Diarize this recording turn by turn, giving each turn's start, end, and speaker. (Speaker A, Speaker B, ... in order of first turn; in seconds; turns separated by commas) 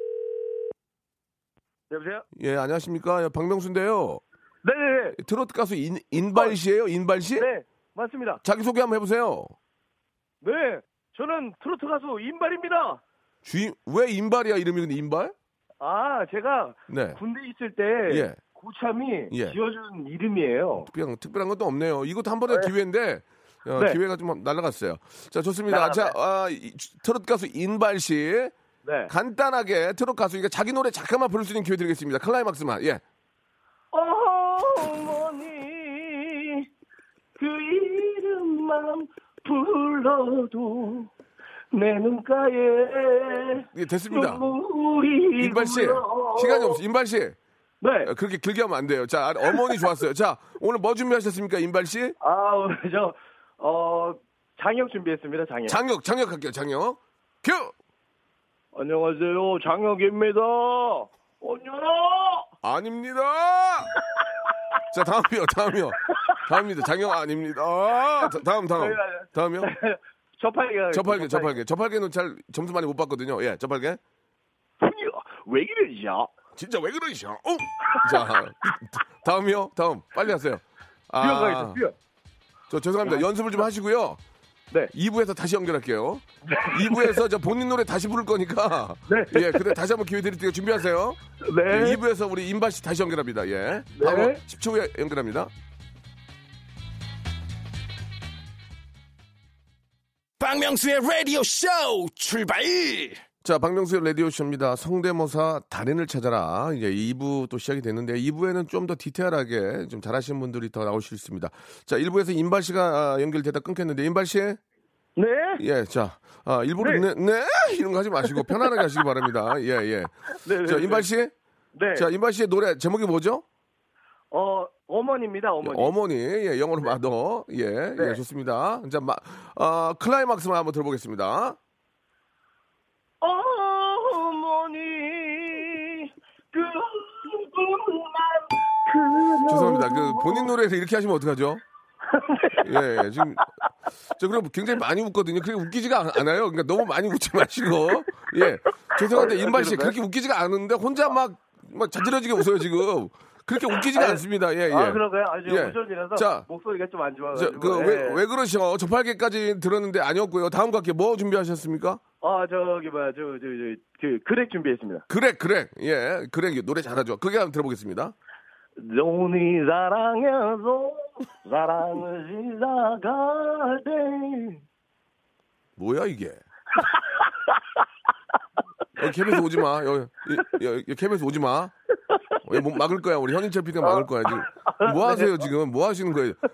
Speaker A: 1.9-2.2, Speaker B: 2.4-4.2, Speaker A: 4.6-5.2, Speaker B: 5.2-7.5, Speaker A: 6.2-6.5, Speaker A: 7.4-8.4, Speaker B: 8.4-9.5, Speaker A: 10.4-13.0, Speaker B: 13.4-15.3, Speaker A: 15.8-20.9, Speaker B: 16.9-17.2, Speaker B: 18.1-18.4, Speaker B: 19.3-19.6, Speaker B: 20.8-28.5, Speaker A: 25.7-26.1, Speaker A: 28.8-29.1, Speaker B: 29.1-33.0, Speaker A: 33.9-36.7, Speaker A: 37.4-41.1, Speaker A: 41.7-46.8, Speaker B: 43.7-44.4, Speaker B: 45.4-47.4, Speaker A: 47.8-48.1, Speaker B: 48.0-52.1, Speaker A: 52.2-55.8, Speaker B: 55.7-57.7, Speaker A: 58.7-62.5, Speaker B: 62.6-63.9, Speaker B: 64.9-69.7, Speaker A: 66.1-66.4, Speaker A: 68.8-71.6, Speaker B: 70.9-74.0, Speaker A: 74.8-76.3, Speaker B: 76.5-81.8, Speaker A: 77.9-78.2, Speaker A: 81.2-81.9, Speaker B: 82.7-84.2, Speaker B: 84.9-95.5, Speaker A: 86.5-87.2, Speaker A: 89.1-89.7, Speaker A: 91.4-92.0, Speaker A: 93.9-94.4, Speaker C: 100.4-103.2, Speaker B: 103.4-114.6, Speaker A: 115.2-115.6, Speaker B: 115.6-121.3, Speaker A: 116.8-117.0, Speaker A: 120.4-121.0, Speaker A: 121.7-122.1, Speaker B: 121.9-123.4, Speaker A: 124.3-125.9, Speaker B: 125.6-131.6, Speaker A: 133.2-140.5, Speaker B: 139.5-141.6, Speaker A: 142.1-143.0, Speaker B: 142.6-143.4, Speaker B: 144.2-156.4, Speaker A: 148.9-149.9, Speaker A: 153.8-158.2, Speaker B: 157.3-162.0, Speaker A: 162.2-165.0, Speaker B: 165.1-168.1, Speaker A: 168.8-174.6, Speaker B: 175.8-176.4, Speaker A: 176.8-177.8, Speaker B: 179.0-181.7, Speaker B: 182.4-186.4, Speaker A: 183.8-185.4